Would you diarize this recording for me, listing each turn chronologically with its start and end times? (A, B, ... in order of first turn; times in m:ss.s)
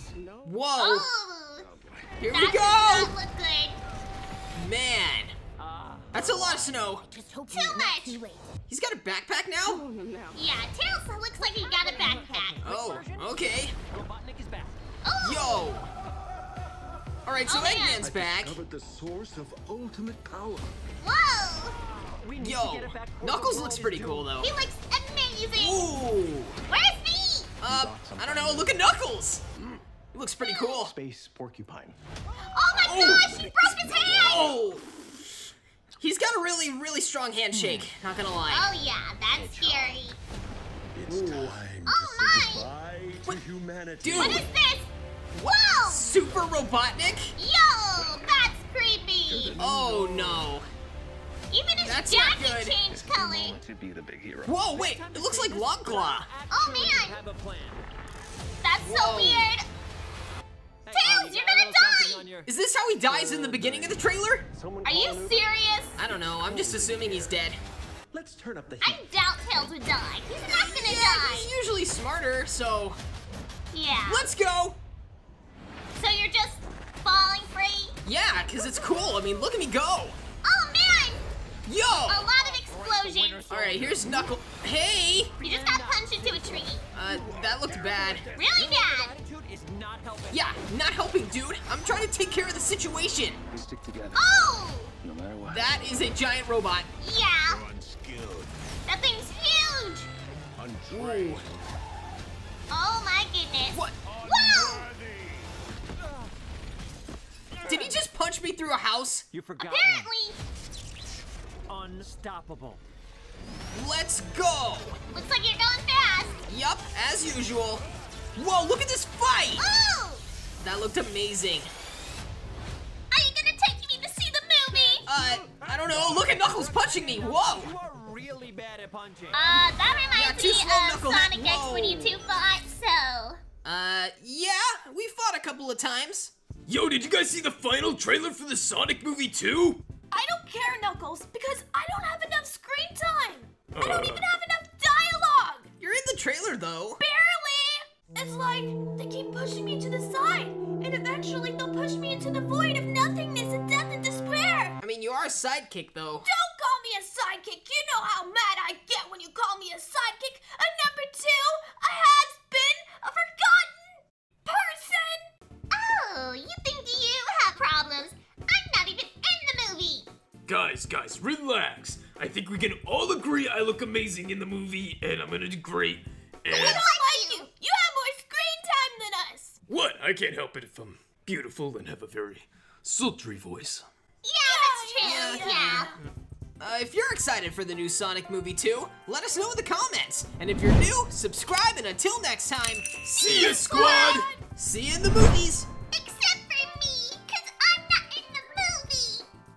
0:00.4-0:01.1 A
0:00.8-0:01.7 B
0:01.7-0:02.1 C
0:02.2-0:03.1 A
0:02.3-0:03.8 B
0:04.5-0:05.3 A
0:05.6-0:06.2 D
0:06.1-0:07.1 A
0:07.1-0:08.4 B
0:08.7-0:09.9 A
0:10.3-0:12.8 B
0:11.4-0:14.8 D
0:12.6-0:13.8 A
0:15.0-0:15.7 B
0:15.2-0:15.9 A
0:17.3-0:18.6 A
0:17.5-0:18.0 B
0:18.0-0:20.7 C
0:21.0-0:21.8 B
0:22.0-0:24.3 D
0:22.4-0:24.5 A
0:24.4-0:25.8 B
0:25.6-0:26.6 A
0:26.7-0:27.5 B
0:27.6-0:29.4 A
0:27.6-0:28.8 C
0:30.1-0:30.9 A
0:30.4-0:30.8 B
0:30.9-0:32.0 C
0:32.5-0:34.6 B
0:32.7-0:34.6 C
0:32.8-0:33.4 A
0:34.0-0:34.8 A
0:36.0-0:38.7 A
0:37.5-0:37.9 C
0:38.5-0:40.2 B
0:39.3-0:40.0 C
0:40.9-0:44.5 C
0:41.1-0:41.6 A
0:41.9-0:42.7 B
0:44.0-0:44.5 A
0:44.1-0:44.9 B
0:45.3-0:47.4 A
0:45.4-0:46.2 B
0:47.4-0:49.6 B
0:49.3-0:50.5 C
0:49.6-0:50.6 A
0:51.5-0:53.6 B
0:51.8-0:52.8 A
0:52.9-0:54.5 C
0:54.4-0:56.3 A
0:54.7-0:57.8 D
0:56.5-0:57.2 B
0:58.6-0:59.7 B
0:58.8-0:59.5 A
1:00.9-1:02.5 D
1:00.9-1:02.3 B
1:02.4-1:04.5 A
1:03.1-1:05.5 C
1:04.8-1:06.0 B
1:06.0-1:07.6 A
1:06.4-1:07.4 C
1:08.1-1:09.0 C
1:08.8-1:11.5 B
1:10.4-1:13.0 A
1:13.7-1:14.3 B
1:14.1-1:14.8 A
1:15.9-1:18.0 B
1:18.0-1:20.2 A
1:20.4-1:21.3 B
1:21.7-1:22.3 A
1:22.1-1:23.4 B
1:22.4-1:24.3 D
1:23.5-1:25.4 A
1:25.4-1:26.7 D
1:25.4-1:26.9 B
1:26.9-1:28.3 A
1:27.1-1:28.4 C
1:28.4-1:29.1 B
1:28.4-1:30.5 D
1:30.3-1:33.4 A
1:33.5-1:34.3 C
1:34.2-1:35.0 B
1:35.0-1:35.8 C
1:35.4-1:36.9 A
1:37.0-1:37.6 B
1:37.5-1:38.5 C
1:38.9-1:40.1 B
1:40.6-1:41.5 C
1:40.9-1:41.5 A
1:42.7-1:44.9 B
1:43.7-1:44.0 A
1:44.1-1:45.4 C
1:47.6-1:49.3 A
1:49.3-1:50.1 D
1:49.6-1:50.4 B
1:51.7-1:52.8 D
1:53.7-1:55.0 A
1:55.1-1:56.4 B
1:56.5-1:57.8 A
1:58.4-1:59.7 A
1:59.6-2:00.2 B
2:00.6-2:01.7 A
2:03.1-2:05.1 B
2:05.0-2:07.7 A
2:05.4-2:09.4 D
2:09.3-2:13.4 B
2:10.1-2:12.2 A
2:13.6-2:16.3 A
2:16.7-2:19.8 E
2:20.1-2:25.7 F
2:23.7-2:24.3 E
2:25.8-2:27.0 A
2:27.0-2:34.8 F
2:34.8-2:36.3 A
2:36.2-2:45.3 F
2:45.7-2:50.1 B
2:50.5-2:56.8 E
2:56.5-2:59.6 F
2:56.5-2:57.5 B
2:59.7-3:03.9 E
3:04.2-3:05.9 B
3:04.4-3:06.0 F
3:05.0-3:05.8 A
3:06.6-3:15.7 A
3:13.2-3:14.3 E
3:13.2-3:14.3 B
3:15.9-3:19.3 B